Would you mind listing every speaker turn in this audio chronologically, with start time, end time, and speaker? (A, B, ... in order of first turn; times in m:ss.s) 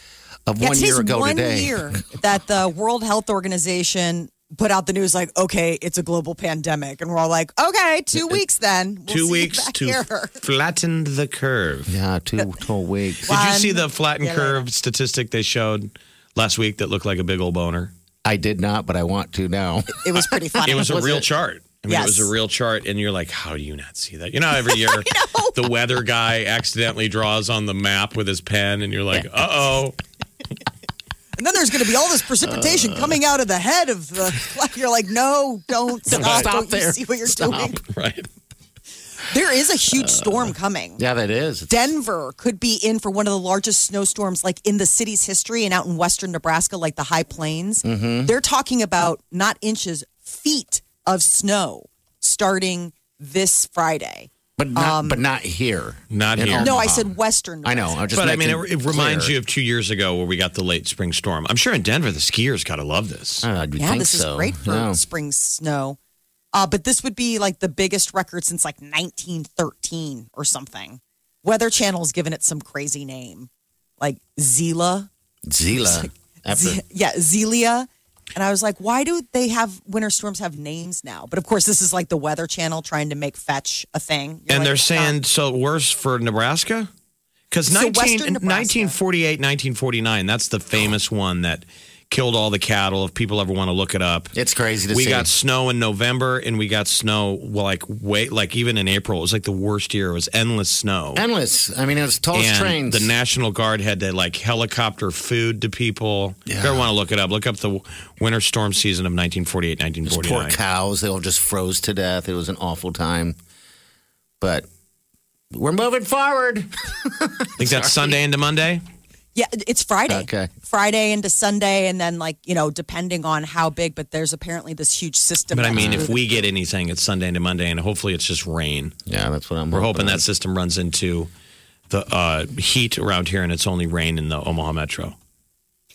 0:00.4-0:02.0 A
0:00.6-0:10.4 B
0:08.1-0:08.4 A
0:09.1-0:11.9 C
0:11.9-0:13.4 A
0:13.3-0:14.7 B
0:13.3-0:17.9 C
0:18.2-0:21.2 A
0:20.0-0:21.0 B
0:20.6-0:30.0 C
0:21.9-0:22.3 B
0:24.7-0:25.6 B
0:31.4-0:37.8 B
0:32.4-0:33.2 A
0:36.1-0:37.8 A
0:37.9-0:38.3 C
0:39.3-0:41.0 B
0:40.0-0:41.9 A
0:41.7-0:55.2 B
0:47.8-0:48.3 A
0:54.6-0:57.1 A
0:56.1-0:56.7 C
0:56.6-0:58.0 B
0:57.6-0:59.3 A
0:58.1-1:03.5 C
1:03.4-1:05.0 A
1:03.8-1:06.0 B
1:06.5-1:13.5 B
1:14.0-1:15.1 B
1:15.5-1:16.8 A
1:15.7-1:25.1 B
1:24.5-1:26.9 C
1:27.5-1:34.3 C
1:27.7-1:29.0 B
1:34.3-1:35.3 A
1:34.9-1:41.2 C
1:41.1-1:43.1 A
1:42.3-1:50.6 C
1:46.5-1:46.9 A
1:50.0-1:53.4 A
1:54.4-1:54.7 A
1:55.5-1:58.2 A
1:57.6-1:58.8 C
1:59.3-2:06.2 B
2:00.1-2:00.5 A
2:05.5-2:08.9 C
2:05.7-2:06.1 A
2:09.1-2:10.2 A
2:09.7-2:11.3 C
2:11.9-2:15.2 C